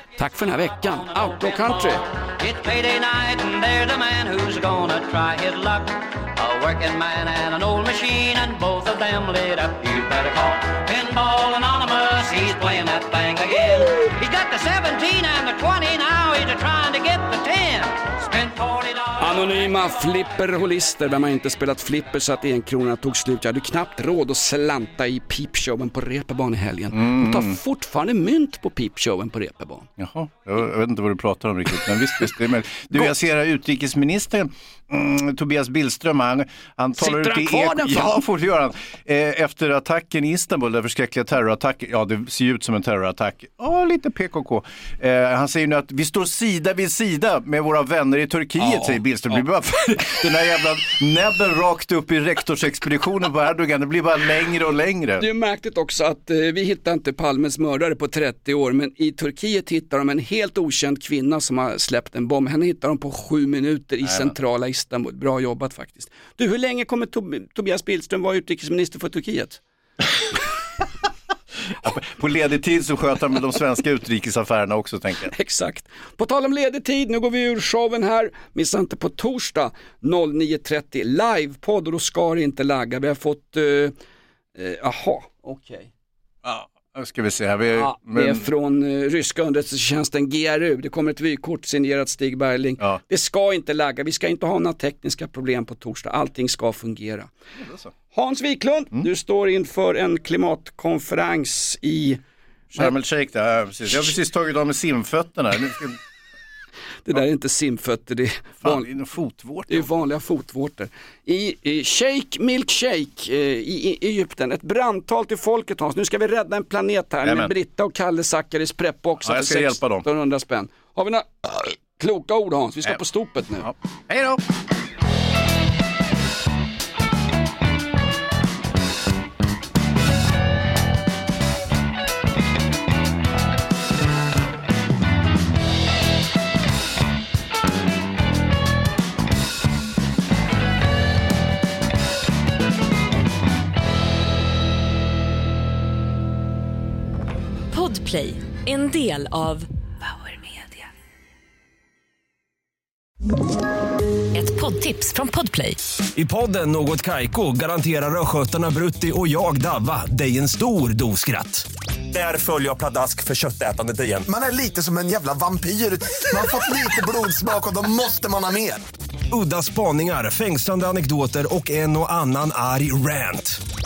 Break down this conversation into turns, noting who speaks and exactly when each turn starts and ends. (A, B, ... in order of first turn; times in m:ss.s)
0:00.2-0:02.1 A
0:01.2-0:19.7 B
0:19.2-0:29.9 A
0:26.9-0:27.6 C
0:30.0-0:55.2 C
0:37.0-0:38.2 A
0:48.6-0:49.4 A
0:55.2-1:09.6 A
1:04.0-1:04.3 C
1:11.8-1:15.3 C
1:15.3-1:23.9 A
1:24.6-1:25.9 A
1:26.4-1:28.4 C
1:27.7-1:37.3 A
1:37.6-1:37.9 C
1:38.1-1:42.2 A
1:42.8-1:46.0 C
1:47.1-1:48.9 A
1:48.6-1:49.9 C
1:49.7-2:03.7 A
1:57.2-1:57.5 C
1:59.2-2:00.1 C
2:03.6-2:04.4 C
2:27.7-2:30.9 D
2:34.3-2:35.8 D
2:36.2-2:44.2 E
2:44.3-2:48.8 F
2:49.3-2:53.6 E